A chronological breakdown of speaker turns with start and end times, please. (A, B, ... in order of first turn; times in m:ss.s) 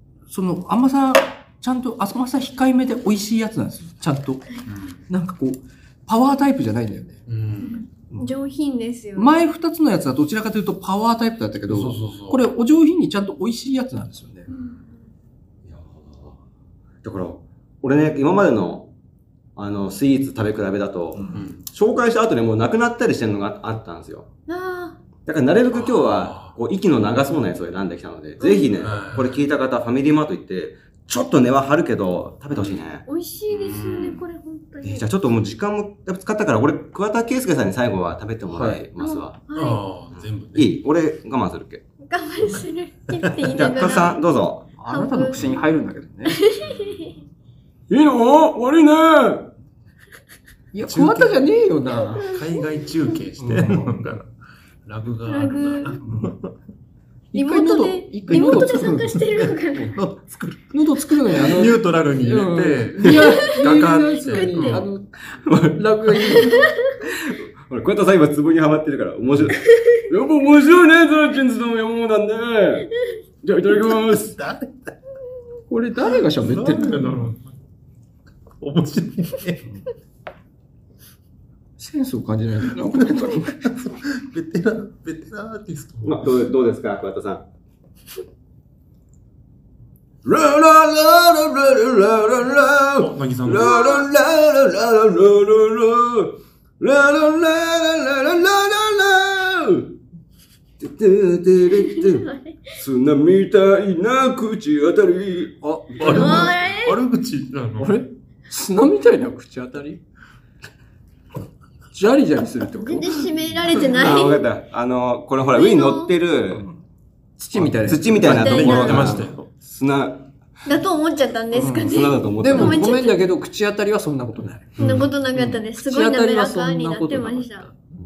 0:00.3-0:04.4 A
0:04.7-0:05.0 B
0:05.1-0:07.2 A
0:07.3-0:07.8 B
0:07.6-0:09.3 C
0:08.1-0:08.4 A
0:09.2-0:14.5 A
0:11.7-0:12.4 B
0:14.5-0:14.8 C
0:15.7-0:16.3 D
0:17.0-0:18.9 D
0:19.6-0:24.3 D
0:21.1-0:21.4 A
0:21.3-0:21.6 B
0:24.5-0:25.0 C
0:25.2-0:33.0 D
0:25.7-0:26.5 B
0:28.4-0:28.8 C
0:28.8-0:29.4 B
0:32.5-0:32.8 B
0:33.0-0:35.0 C
0:33.5-0:34.2 B
0:34.8-0:39.4 D
0:38.5-0:38.8 A
0:39.0-0:39.8 C
0:39.5-0:40.8 B
0:40.5-0:41.8 D
0:42.0-0:44.2 C
0:43.4-0:44.7 D
0:44.8-0:46.4 A
0:44.9-0:45.4 C
0:46.3-0:47.1 C
0:47.9-0:49.5 E
0:50.7-0:52.3 A
0:50.9-0:51.4 B
0:52.2-0:54.3 B
0:53.4-0:54.0 A
0:54.8-0:56.5 B
0:55.2-0:56.0 C
0:56.0-0:56.3 A
0:57.3-0:59.2 A
0:57.3-0:59.9 C
0:59.2-1:04.9 B
1:00.7-1:06.6 A
1:03.0-1:03.7 C
1:04.3-1:04.8 C
1:06.4-1:06.7 C
1:07.1-1:09.6 D
1:10.1-1:12.9 E
1:13.4-1:14.4 E
1:13.9-1:14.7 B
1:15.7-1:17.1 A
1:16.4-1:17.5 B
1:18.6-1:19.7 B
1:21.8-1:23.7 A
1:22.9-1:26.3 B
1:26.0-1:27.4 D
1:30.2-1:40.0 E
1:33.0-1:33.8 B
1:33.6-1:34.1 C
1:40.8-1:42.2 E
1:41.7-1:42.7 C
1:42.8-1:45.6 E
1:45.6-1:46.5 A
1:46.0-1:48.0 B
1:46.0-1:47.0 C
1:47.8-1:50.0 A
1:51.9-1:53.2 A
1:52.8-1:54.4 C
1:53.8-1:56.6 D
1:55.5-1:56.1 C
1:56.5-1:56.8 A
1:57.4-1:59.1 A
1:57.6-2:00.3 D
1:58.2-1:59.5 B
1:58.2-1:59.2 C
2:00.6-2:03.2 C
2:01.5-2:04.8 A
2:01.7-2:02.9 D
2:04.8-2:05.1 B
2:04.8-2:07.7 C
2:05.3-2:07.7 A